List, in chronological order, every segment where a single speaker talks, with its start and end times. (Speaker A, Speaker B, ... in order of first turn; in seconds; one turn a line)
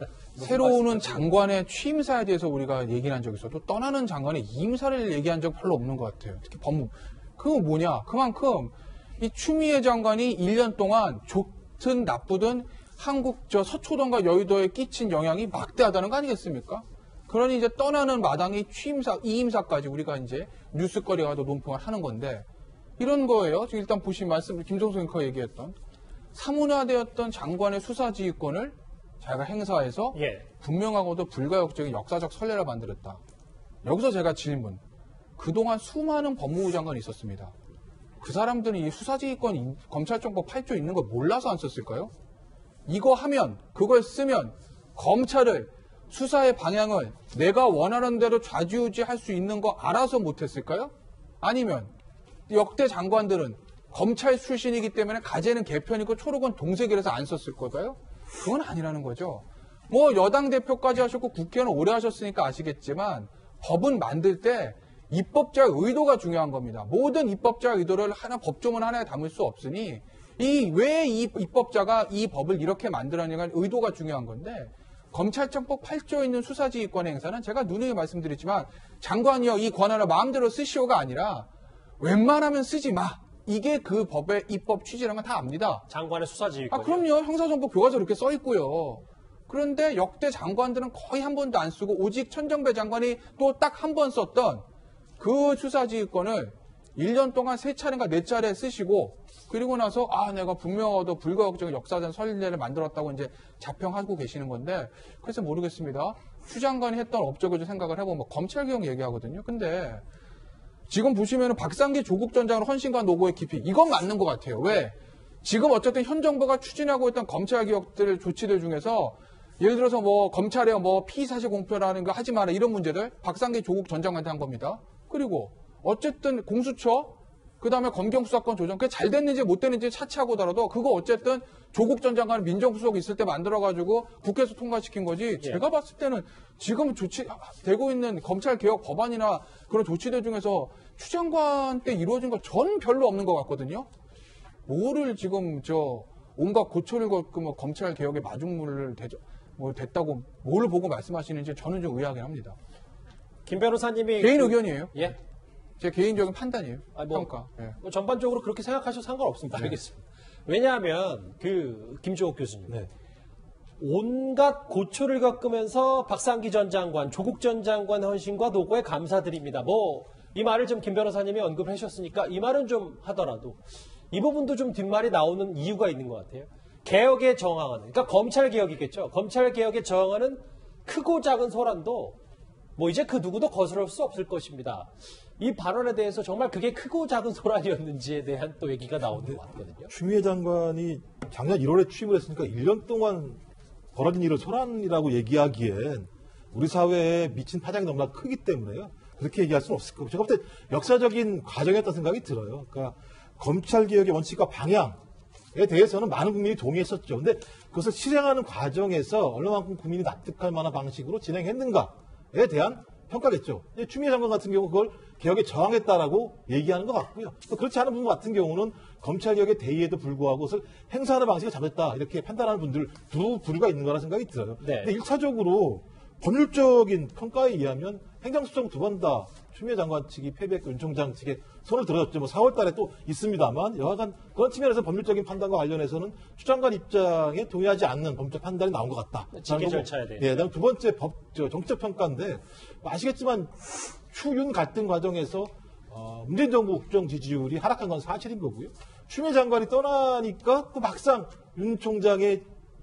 Speaker A: 0.4-22.4
Speaker B: 0.4-1.3
Speaker A: 23.0-25.8
Speaker A: 26.3-33.2
Speaker B: 30.1-30.4
Speaker A: 33.8-34.8
Speaker A: 35.4-37.5
Speaker A: 38.2-42.1
Speaker A: 42.9-51.9
Speaker A: 52.5-81.5
Speaker A: 82.0-85.8
Speaker B: 85.9-87.0
Speaker A: 86.7-94.6
Speaker A: 95.2-110.0
Speaker A: 110.9-143.9
Speaker A: 144.7-152.6
Speaker B: 153.5-155.2
Speaker A: 154.2-155.2
Speaker A: 155.8-157.8
Speaker B: 156.9-162.9
Speaker B: 163.8-173.6
Speaker B: 174.1-182.2
Speaker B: 182.8-189.9
Speaker C: 189.9-193.4
Speaker C: 193.9-205.0
Speaker C: 205.5-243.6
Speaker B: 224.6-224.9
Speaker B: 239.3-240.4
Speaker C: 244.1-252.5